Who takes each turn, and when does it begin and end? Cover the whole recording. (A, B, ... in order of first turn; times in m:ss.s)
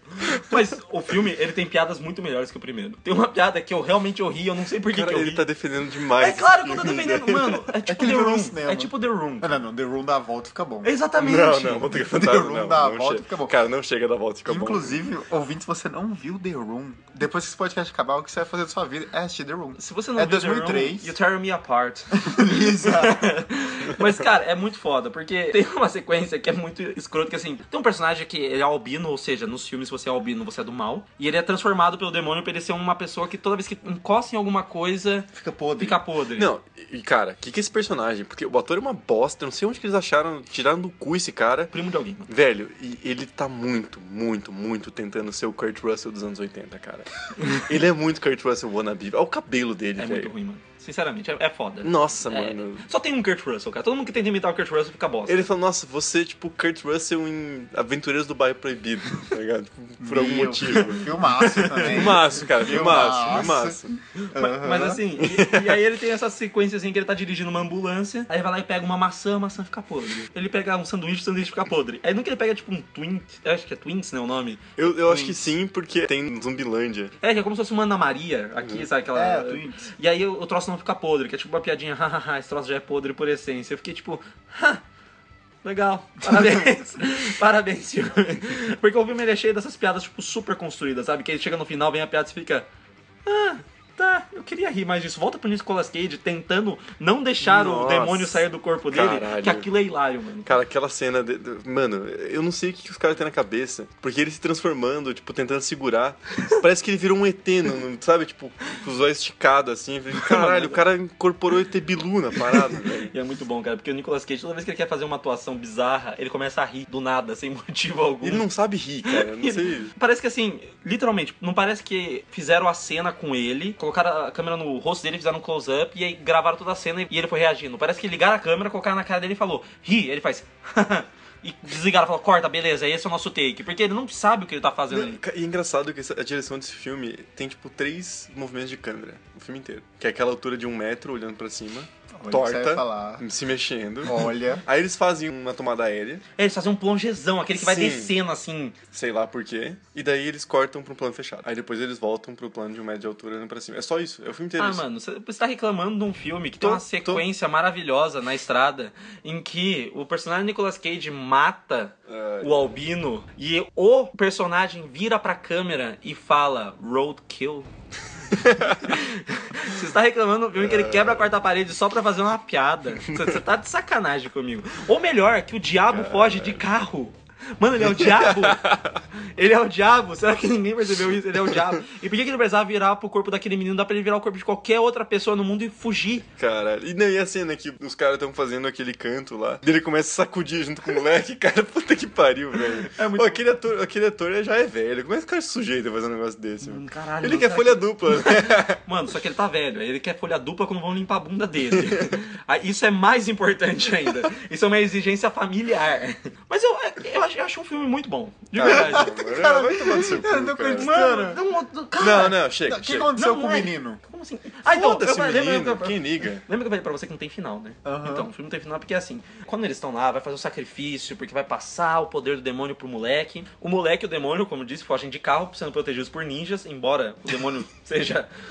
0:00.2-0:00.6 A
0:00.4-0:05.4 B
0:04.9-0:07.7 A
0:06.2-0:09.6 B
0:07.9-0:10.9 C
0:10.8-0:12.0 B
0:11.2-0:15.0 A
0:12.0-0:13.6 C
0:14.5-0:21.2 C
0:19.8-0:36.5 B
0:22.2-0:23.3 C
0:35.3-0:36.0 C
0:36.4-0:41.7 A
0:41.7-0:42.3 B
0:42.3-0:50.3 A
0:50.0-0:55.5 B
0:51.8-0:52.9 A
0:55.3-1:01.1 A
1:00.0-1:03.8 C
1:01.4-1:02.9 B
1:01.8-1:04.0 A
1:04.2-1:14.6 B
1:04.3-1:05.0 C
1:05.2-1:05.8 A
1:14.8-1:17.1 A
1:15.1-1:15.4 C
1:17.2-1:24.8 B
1:19.1-1:19.9 C
1:25.6-1:32.7 B
1:33.2-1:40.5 B
1:37.4-1:39.7 A
1:40.4-1:53.1 A
1:50.2-1:50.9 B
1:52.5-1:58.4 B
1:58.2-1:59.9 A
1:59.0-2:15.2 B
2:14.9-2:26.2 A
2:22.2-2:23.2 C
2:24.0-2:24.6 C
2:26.4-2:28.8 B
2:27.6-2:28.1 A
2:28.9-2:34.8 A
2:34.6-2:47.7 B
2:36.6-2:37.2 A
2:42.1-2:42.8 A
2:48.3-2:49.0 A
2:48.7-2:58.6 B
2:50.6-2:51.3 A
2:53.1-2:53.4 A
2:55.9-2:56.6 A
2:57.8-2:59.0 A
2:59.4-3:06.3 B
3:01.1-3:01.7 A
3:06.4-3:18.8 A
3:12.8-3:13.5 B
3:16.6-3:29.1 B
3:21.9-3:22.1 A
3:28.6-3:31.0 A
3:28.6-3:31.4 C
3:30.8-3:32.4 B
3:32.0-3:33.1 A
3:32.7-3:34.0 C
3:33.2-3:48.3 B
3:34.7-3:36.4 A
3:37.8-3:38.3 C